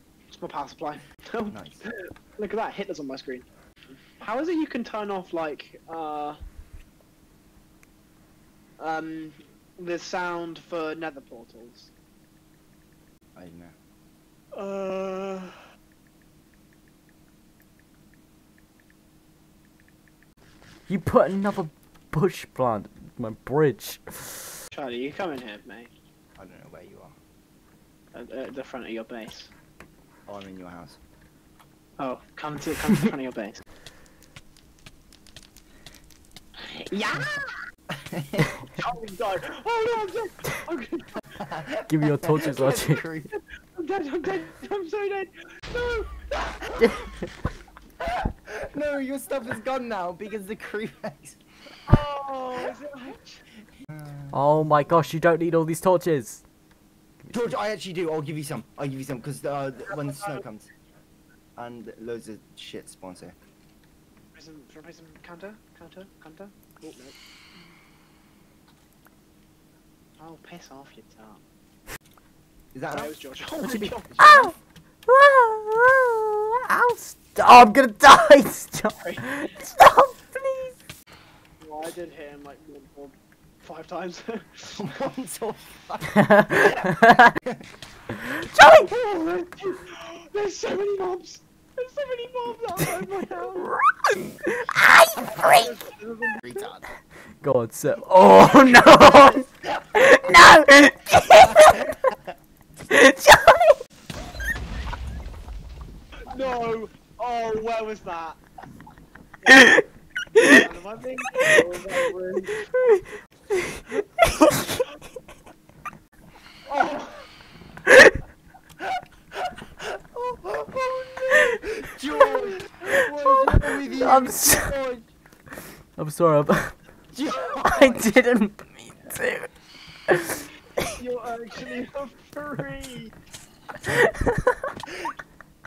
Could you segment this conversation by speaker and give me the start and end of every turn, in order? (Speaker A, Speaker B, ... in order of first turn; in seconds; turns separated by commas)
Speaker A: 0.3-3.5, Speaker B: 1.5-1.8, Speaker A: 4.2-6.4, Speaker A: 8.8-11.9, Speaker B: 13.3-13.8, Speaker A: 14.5-15.6, Speaker C: 20.9-24.6, Speaker A: 24.7-25.9, Speaker B: 26.4-27.2, Speaker A: 28.1-29.5, Speaker B: 30.3-31.0, Speaker A: 32.0-33.6, Speaker A: 36.6-37.5, Speaker B: 37.9-38.6, Speaker A: 38.8-41.1, Speaker B: 41.3-43.3, Speaker C: 41.9-43.0, Speaker A: 43.3-47.0, Speaker B: 48.1-52.0, Speaker A: 51.9-53.4, Speaker B: 53.9-54.9, Speaker C: 54.3-56.4, Speaker C: 57.2-57.6, Speaker B: 57.3-60.7, Speaker B: 61.6-63.4, Speaker A: 64.3-67.8, Speaker A: 70.2-71.4, Speaker B: 72.7-73.1, Speaker A: 72.9-74.5, Speaker C: 73.6-74.5, Speaker C: 75.1-80.8, Speaker A: 79.0-79.4, Speaker A: 81.6-84.7, Speaker B: 84.7-87.6, Speaker C: 86.2-87.3, Speaker C: 88.5-88.9, Speaker A: 88.6-93.8, Speaker C: 93.6-95.7, Speaker B: 95.2-95.7, Speaker A: 95.4-96.7, Speaker B: 96.4-96.8, Speaker C: 97.4-102.1, Speaker B: 101.6-101.9, Speaker C: 102.9-103.8, Speaker A: 106.3-108.4, Speaker A: 109.5-109.7, Speaker C: 109.5-109.8, Speaker C: 110.4-110.7, Speaker A: 110.4-112.9, Speaker C: 112.5-114.8, Speaker A: 116.7-117.3, Speaker C: 117.9-118.2, Speaker B: 120.7-125.0, Speaker C: 123.9-124.8, Speaker C: 126.0-126.8, Speaker B: 127.1-128.1, Speaker C: 127.6-129.5, Speaker C: 130.1-130.5, Speaker A: 131.0-133.1, Speaker C: 133.8-134.6